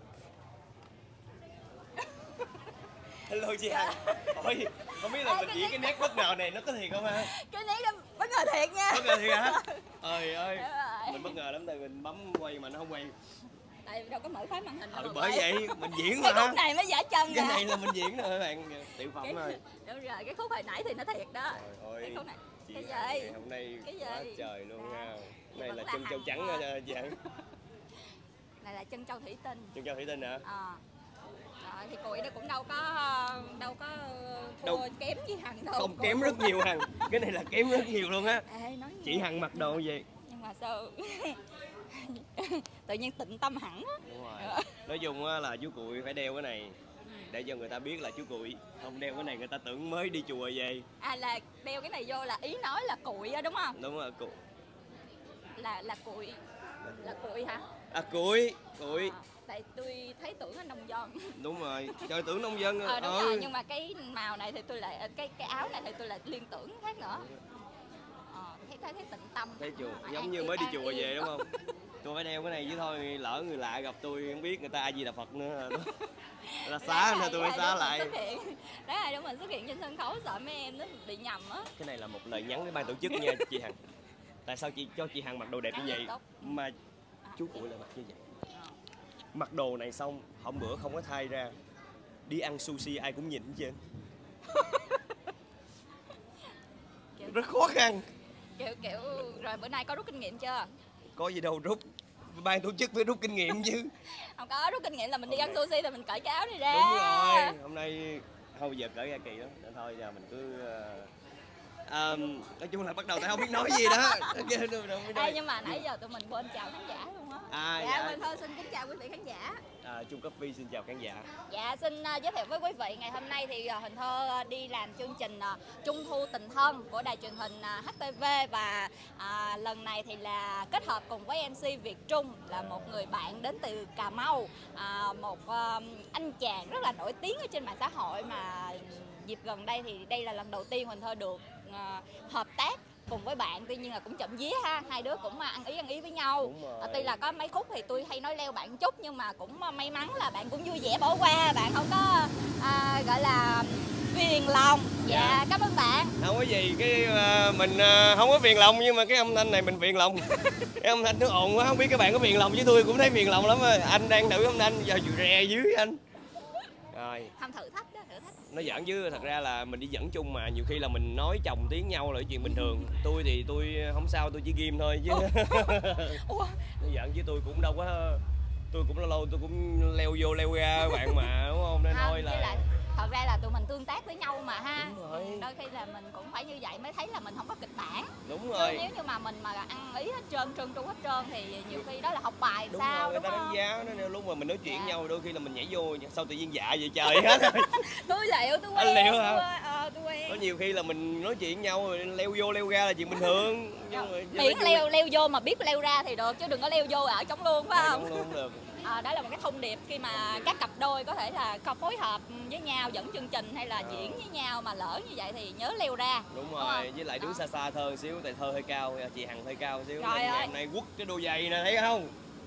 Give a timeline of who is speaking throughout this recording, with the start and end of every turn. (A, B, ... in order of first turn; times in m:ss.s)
0:03.3-0:07.3 A
0:03.7-0:06.3 B
0:07.0-0:11.4 B
0:08.9-0:13.1 A
0:13.8-0:17.7 B
0:14.9-0:16.6 A
0:17.3-0:19.6 A
0:19.1-0:27.3 B
0:21.5-0:27.2 A
0:28.6-0:29.8 B
0:29.8-0:30.4 A
0:30.4-0:30.8 B
0:31.6-0:37.1 B
0:35.8-0:38.5 A
0:37.6-0:37.9 B
0:38.5-0:44.7 B
0:39.0-0:40.1 A
0:44.0-0:46.8 A
0:47.0-0:47.3 B
0:47.3-0:50.8 A
0:51.0-0:53.8 B
0:53.8-0:54.4 A
0:55.6-0:56.4 B
0:56.9-0:57.7 B
0:57.9-0:59.2 A
0:58.8-1:01.2 B
1:01.4-1:03.5 A
1:02.8-1:07.2 B
1:07.0-1:07.4 A
1:08.3-1:11.4 B
1:09.6-1:11.5 A
1:12.0-1:15.9 A
1:16.4-1:21.7 B
1:16.6-1:18.2 A
1:21.8-1:23.8 A
1:23.1-1:23.4 B
1:24.5-1:26.8 A
1:25.7-1:26.6 B
1:27.2-1:27.7 B
1:27.4-1:28.3 A
1:29.3-1:31.5 A
1:32.3-1:33.8 A
1:34.5-1:35.2 B
1:37.2-1:37.5 B
1:37.2-1:38.0 A
1:38.6-1:40.7 B
1:41.2-1:43.9 A
1:44.2-1:47.6 B
1:45.3-1:45.6 A
1:46.7-1:51.1 A
1:51.9-1:55.8 A
1:53.2-1:54.5 B
1:55.1-1:59.6 B
1:57.5-1:58.3 A
1:59.8-2:01.3 A
2:01.5-2:36.2 B
2:12.5-2:13.1 A
2:26.4-2:27.2 A
2:35.0-2:35.4 A
2:36.2-2:40.2 A
2:40.2-2:40.7 B
2:40.8-2:46.0 A
2:46.9-2:47.3 A
2:47.4-2:49.3 B
2:48.5-2:56.2 A
2:52.5-2:52.8 B
2:55.1-2:56.7 B
2:56.8-3:02.6 A
3:00.8-3:01.3 B
3:01.9-3:13.6 B
3:04.8-3:05.5 A
3:08.3-3:08.9 A
3:12.7-3:17.8 A
3:14.6-3:15.0 B
3:17.0-3:20.4 B
3:18.8-3:19.4 A
3:20.3-3:24.8 A
3:23.1-3:28.2 B
3:27.7-3:28.7 A
3:28.8-3:37.4 B
3:30.1-3:30.5 A
3:33.8-3:34.2 A
3:36.3-3:42.1 A
3:40.0-3:40.5 B